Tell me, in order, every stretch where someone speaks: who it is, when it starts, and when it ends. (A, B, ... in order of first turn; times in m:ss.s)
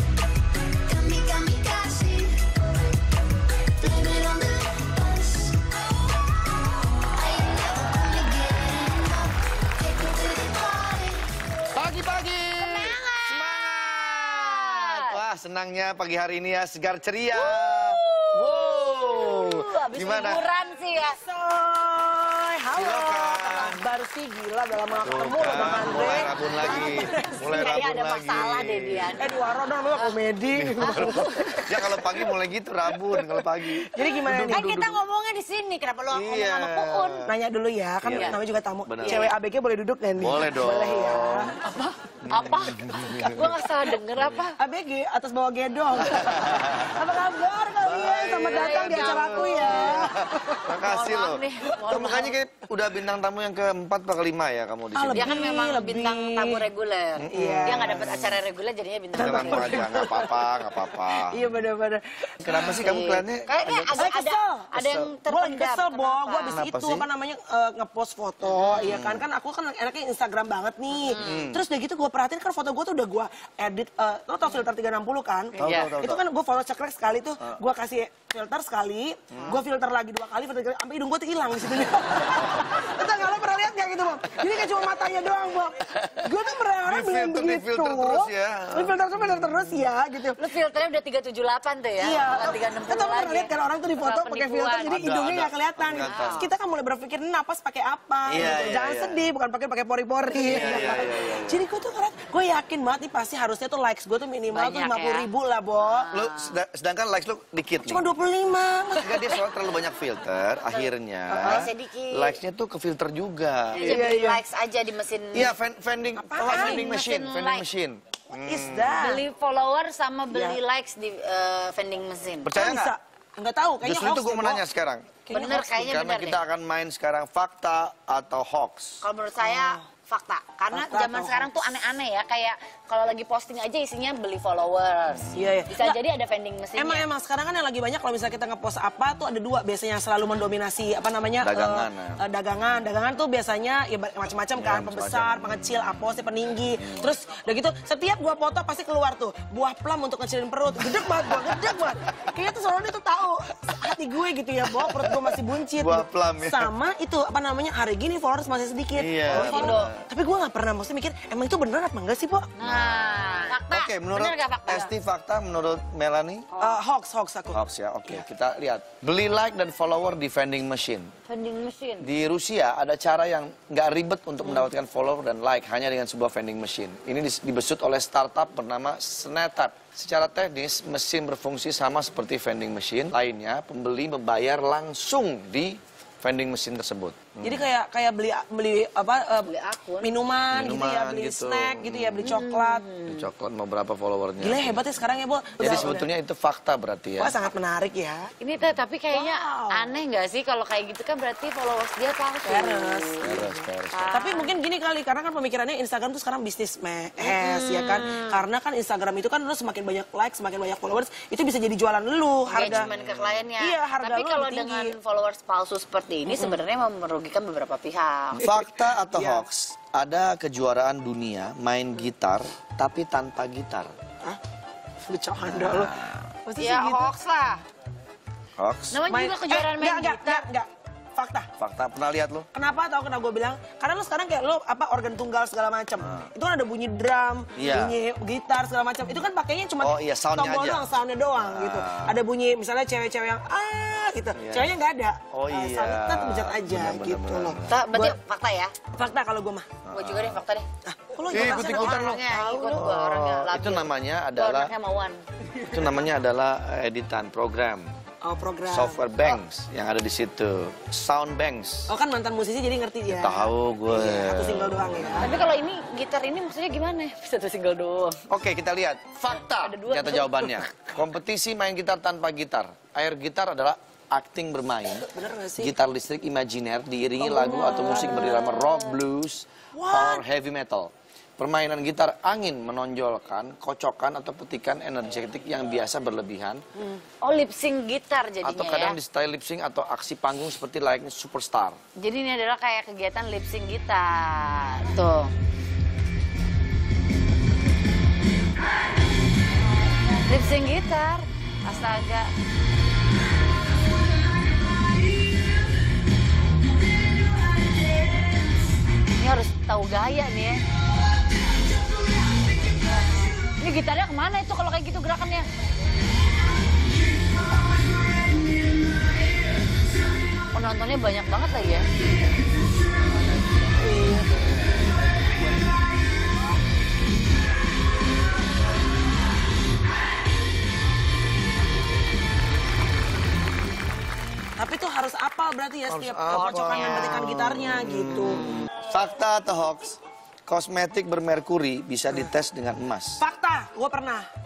0:00.8-0:02.5 A
0:03.8-0:06.0 A
0:07.0-0:11.3 A
0:11.7-0:20.4 B
0:12.6-0:15.2 A
0:17.3-0:21.2 A
0:21.2-0:27.6 C
0:22.7-0:23.8 B
0:25.0-0:29.1 B
0:26.6-0:29.4 A
0:29.2-0:32.2 C
0:30.5-0:35.0 B
0:30.8-0:31.6 A
0:33.1-0:34.7 C
0:34.5-0:37.3 A
0:36.1-0:37.3 B
0:37.3-0:41.5 C
0:38.0-0:39.3 B
0:38.1-0:38.4 A
0:39.0-0:39.3 A
0:40.2-0:41.5 B
0:41.6-0:44.6 A
0:42.2-0:43.5 B
0:44.2-0:44.4 B
0:44.6-0:50.7 C
0:45.9-0:47.0 B
0:47.8-0:55.3 B
0:48.5-0:50.1 A
0:50.8-0:52.3 A
0:54.9-0:56.7 C
0:55.1-0:59.8 A
0:57.2-0:58.4 B
0:57.3-0:58.1 C
0:59.1-1:02.8 C
0:59.2-1:01.4 B
1:02.4-1:04.0 B
1:02.5-1:06.6 A
1:04.0-1:30.4 C
1:04.7-1:05.1 B
1:06.5-1:07.0 B
1:08.4-1:08.9 A
1:08.7-1:09.2 B
1:11.0-1:11.4 A
1:11.2-1:11.6 B
1:15.5-1:15.9 A
1:15.6-1:16.2 B
1:19.3-1:19.6 B
1:26.8-1:29.0 B
1:30.4-1:35.0 A
1:32.0-1:46.1 C
1:34.9-1:36.5 B
1:36.0-1:36.5 A
1:38.3-1:39.2 B
1:40.4-1:41.6 B
1:44.5-1:46.6 A
1:46.1-1:48.0 B
1:47.8-1:49.4 C
1:49.0-1:54.4 B
1:50.6-1:52.4 A
1:51.3-1:51.7 C
1:53.7-1:55.5 A
1:53.8-1:54.2 C
1:55.3-1:59.0 B
1:56.2-1:56.9 C
1:56.4-1:57.6 A
1:58.3-1:59.2 C
1:59.0-2:02.5 A
2:00.3-2:00.6 C
2:02.4-2:02.9 B
2:02.5-2:04.6 C
2:03.8-2:09.0 B
2:05.3-2:05.7 C
2:05.3-2:06.4 A
2:09.0-2:17.0 A
2:09.4-2:09.8 C
2:10.7-2:11.5 C
2:15.3-2:16.0 C
2:16.7-2:42.5 C
2:21.4-2:22.2 B
2:24.6-2:25.5 B
2:31.4-2:31.7 B
2:34.9-2:36.7 B
2:38.9-2:40.0 B
2:39.3-2:39.9 A
2:42.6-2:44.9 A
2:42.6-2:46.5 B
2:46.5-2:46.8 A
2:46.6-2:48.2 C
2:47.5-2:51.1 B
2:51.3-2:52.1 A
2:52.0-3:07.7 B
3:07.4-3:12.8 C
3:09.4-3:10.1 A
3:10.5-3:12.3 B
3:12.2-3:13.2 A
3:13.1-3:14.8 B
3:14.4-3:16.1 C
3:15.6-3:17.4 B
3:17.2-3:18.3 C
3:18.4-3:23.4 A
3:19.1-3:19.9 C
3:22.4-3:32.9 C
3:23.2-3:24.2 B
3:23.9-3:24.5 A
3:27.2-3:28.4 A
3:32.5-3:38.4 A
3:32.6-3:33.4 B
3:33.6-3:35.0 C
3:36.3-3:36.5 C
3:38.4-3:43.9 B
3:38.4-3:39.4 C
3:45.0-3:47.1 C
3:45.4-3:46.3 B
3:46.6-3:47.6 A
3:48.6-3:49.0 B
3:48.9-3:50.5 A
3:49.1-3:51.5 C
3:51.6-3:52.5 B
3:52.5-4:08.2 C
3:56.0-3:56.3 B
3:57.5-3:58.0 B
3:59.8-4:02.2 B
4:04.4-4:04.7 B
4:05.3-4:07.8 B
4:07.7-4:08.7 A
4:08.9-4:09.7 C
4:09.8-4:10.4 B
4:09.9-4:10.6 A
4:10.8-4:12.2 C
4:11.3-4:15.2 A
4:11.3-4:14.7 B
4:15.7-4:17.9 B
4:18.2-4:19.4 C
4:18.7-4:21.9 B
4:21.9-4:25.3 C
4:23.1-4:25.2 B
4:25.2-4:28.2 A
4:28.3-4:46.6 B
4:29.4-4:30.6 A
4:35.1-4:35.7 C
4:37.2-4:39.0 A
4:37.5-4:38.2 C
4:39.7-4:40.2 C
4:47.2-4:49.0 A
4:48.4-4:51.8 B
4:52.0-4:55.3 A
5:00.2-5:02.3 A
5:09.2-5:10.6 A
5:13.6-5:15.5 A
5:20.5-5:21.9 A
5:23.8-5:24.3 C
5:34.6-5:38.5 C
5:35.9-5:43.2 B
5:36.3-5:37.2 A
5:43.2-5:44.3 C